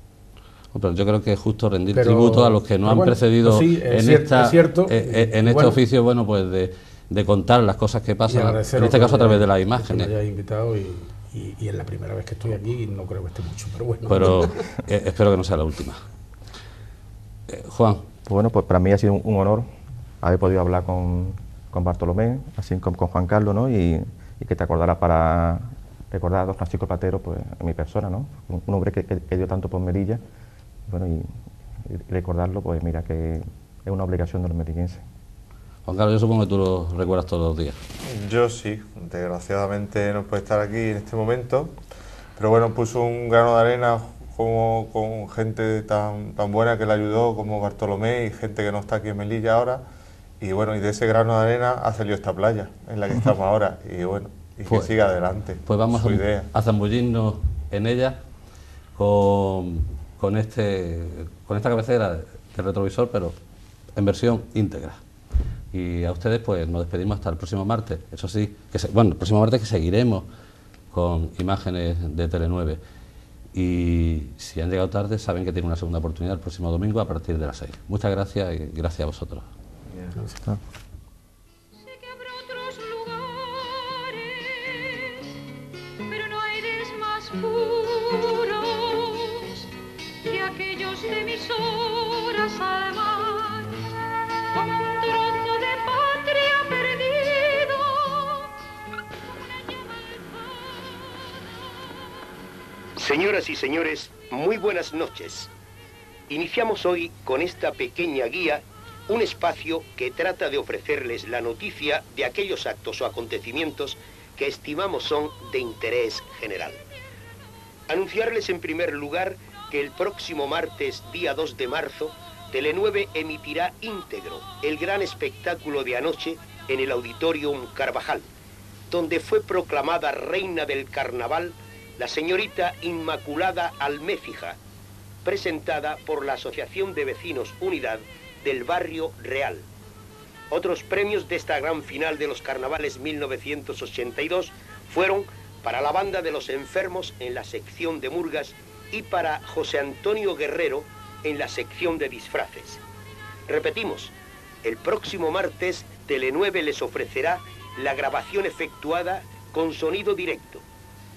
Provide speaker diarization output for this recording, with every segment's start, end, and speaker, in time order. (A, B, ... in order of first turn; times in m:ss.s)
0:00.7-0:10.1 A
0:01.9-0:05.8 B
0:08.3-0:14.6 B
0:14.1-0:16.0 A
0:17.5-0:18.0 A
0:18.3-0:19.7 C
0:20.2-0:30.2 C
0:30.9-0:31.3 C
0:31.8-0:35.0 C
0:35.9-0:37.8 A
0:38.0-0:41.8 D
0:42.4-0:49.8 D
0:50.4-0:56.5 D
0:55.6-0:58.2 A
0:58.9-1:03.4 A
1:04.0-1:05.0 A
1:05.7-1:10.3 A
1:10.9-1:12.8 A
1:13.5-1:19.4 A
1:20.2-1:20.4 B
1:21.7-1:25.2 E
1:26.1-1:29.6 E
1:30.2-1:33.7 E
1:34.5-1:38.5 E
1:43.0-1:45.5 F
1:46.3-1:56.8 F
1:57.9-2:08.3 F
2:08.9-2:14.6 F
2:15.2-2:19.6 F
2:20.5-2:32.8 F
2:33.5-2:40.6 F